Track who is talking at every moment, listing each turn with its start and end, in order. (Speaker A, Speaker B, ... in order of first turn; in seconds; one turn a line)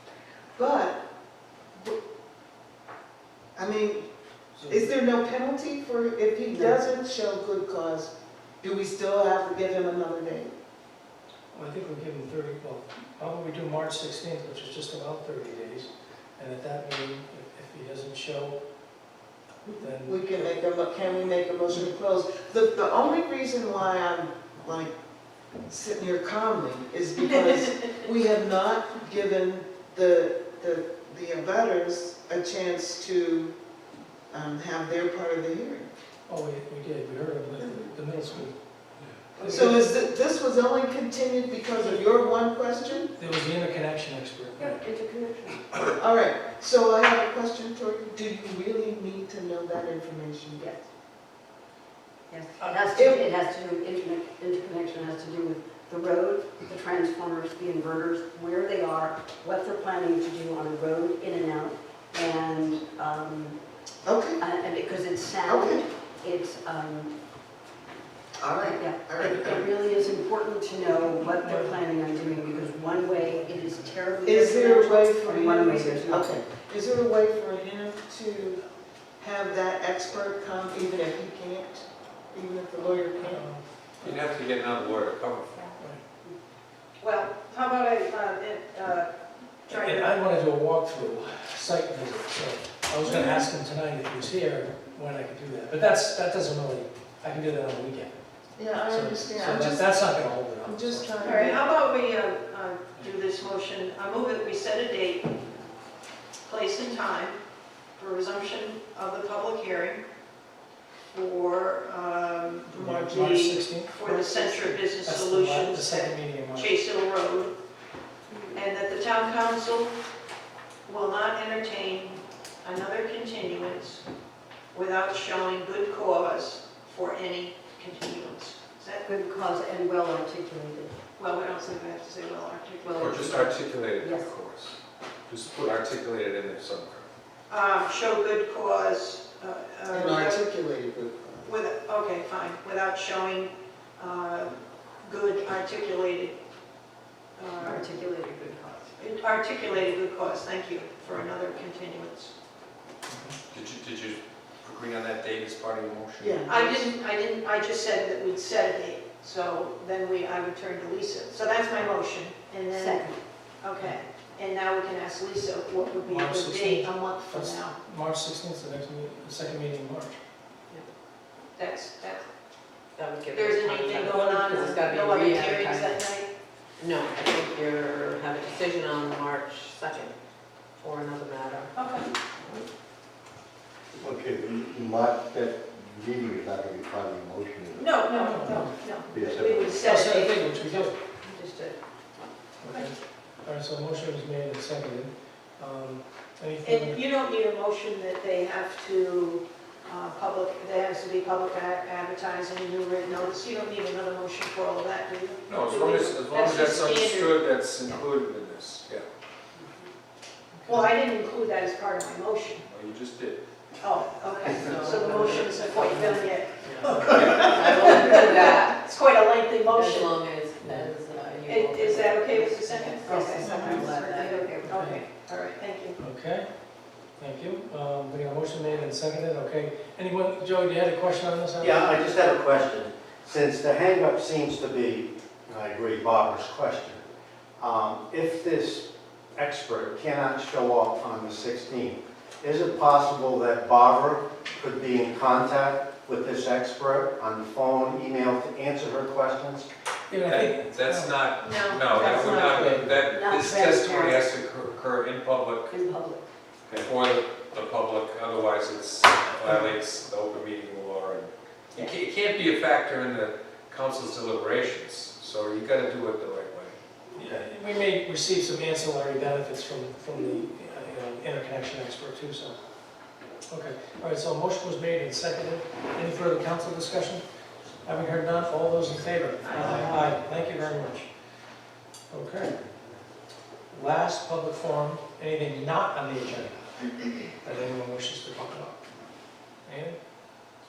Speaker A: 0.6-1.0
Speaker A: 3.5-4.1
Speaker B: 4.5-4.9
Speaker A: 4.7-10.5
Speaker C: 6.5-6.8
Speaker B: 11.5-18.6
Speaker B: 19.8-20.5
Speaker A: 20.0-24.9
Speaker A: 25.7-33.5
Speaker D: 27.2-27.9
Speaker A: 34.3-35.9
Speaker B: 36.3-38.5
Speaker A: 39.4-43.1
Speaker C: 39.4-39.7
Speaker B: 39.4-39.9
Speaker B: 43.1-44.8
Speaker C: 44.6-45.7
Speaker A: 46.0-50.6
Speaker C: 50.5-50.8
Speaker C: 52.3-63.6
Speaker A: 52.9-53.3
Speaker A: 64.0-64.4
Speaker C: 64.4-67.1
Speaker A: 65.4-65.8
Speaker A: 68.4-69.7
Speaker C: 68.5-76.4
Speaker B: 71.4-71.8
Speaker B: 72.5-72.8
Speaker A: 74.3-78.6
Speaker A: 79.2-83.4
Speaker B: 83.2-84.4
Speaker E: 84.0-85.7
Speaker B: 85.8-86.0
Speaker D: 87.0-89.1
Speaker D: 89.7-90.1
Speaker B: 89.7-98.2
Speaker A: 93.0-93.5
Speaker A: 98.6-101.6
Speaker B: 98.8-101.5
Speaker D: 101.2-105.3
Speaker D: 106.5-107.4
Speaker D: 108.0-110.0
Speaker D: 111.1-117.5
Speaker B: 112.7-114.0
Speaker A: 112.8-113.3
Speaker A: 114.0-114.8
Speaker B: 114.9-116.8
Speaker D: 118.5-119.9
Speaker D: 120.9-124.0
Speaker D: 124.7-129.1
Speaker C: 129.0-131.0
Speaker D: 131.2-133.5
Speaker C: 132.8-134.3
Speaker E: 133.0-134.8
Speaker E: 135.3-137.1
Speaker D: 137.5-140.4
Speaker A: 139.9-141.5
Speaker D: 141.4-146.4
Speaker D: 147.4-147.8
Speaker C: 147.6-148.9
Speaker D: 149.0-152.3
Speaker E: 153.5-156.5
Speaker A: 156.2-156.9
Speaker D: 156.5-163.1
Speaker C: 162.7-163.2
Speaker D: 163.6-167.8
Speaker B: 166.1-170.2
Speaker D: 171.6-172.3
Speaker F: 173.0-176.0
Speaker D: 173.3-176.3
Speaker F: 176.8-180.2
Speaker F: 180.8-181.8
Speaker D: 181.8-182.1
Speaker F: 182.4-182.6
Speaker G: 184.0-187.8
Speaker D: 187.7-191.8
Speaker B: 188.1-188.8
Speaker G: 189.1-189.8
Speaker B: 189.8-191.0
Speaker B: 192.6-197.0
Speaker D: 196.6-207.4
Speaker E: 205.5-209.1
Speaker B: 210.6-210.9
Speaker D: 210.7-212.6
Speaker E: 212.7-213.4
Speaker D: 213.8-220.2
Speaker F: 214.5-218.8
Speaker F: 219.7-224.5
Speaker B: 220.6-220.9
Speaker D: 221.5-226.0
Speaker C: 223.1-224.9
Speaker B: 224.7-225.0
Speaker B: 226.0-226.5
Speaker B: 227.2-232.0
Speaker H: 231.6-237.0
Speaker H: 237.6-249.7
Speaker B: 250.1-251.2
Speaker E: 250.2-255.7
Speaker D: 251.4-252.8
Speaker B: 252.6-252.9
Speaker C: 253.1-254.2
Speaker C: 255.7-256.3
Speaker E: 256.7-266.8
Speaker B: 267.2-272.6
Speaker B: 273.5-277.2
Speaker B: 277.8-281.0
Speaker D: 279.4-281.1
Speaker B: 282.1-282.6
Speaker B: 283.7-288.8
Speaker B: 289.7-290.0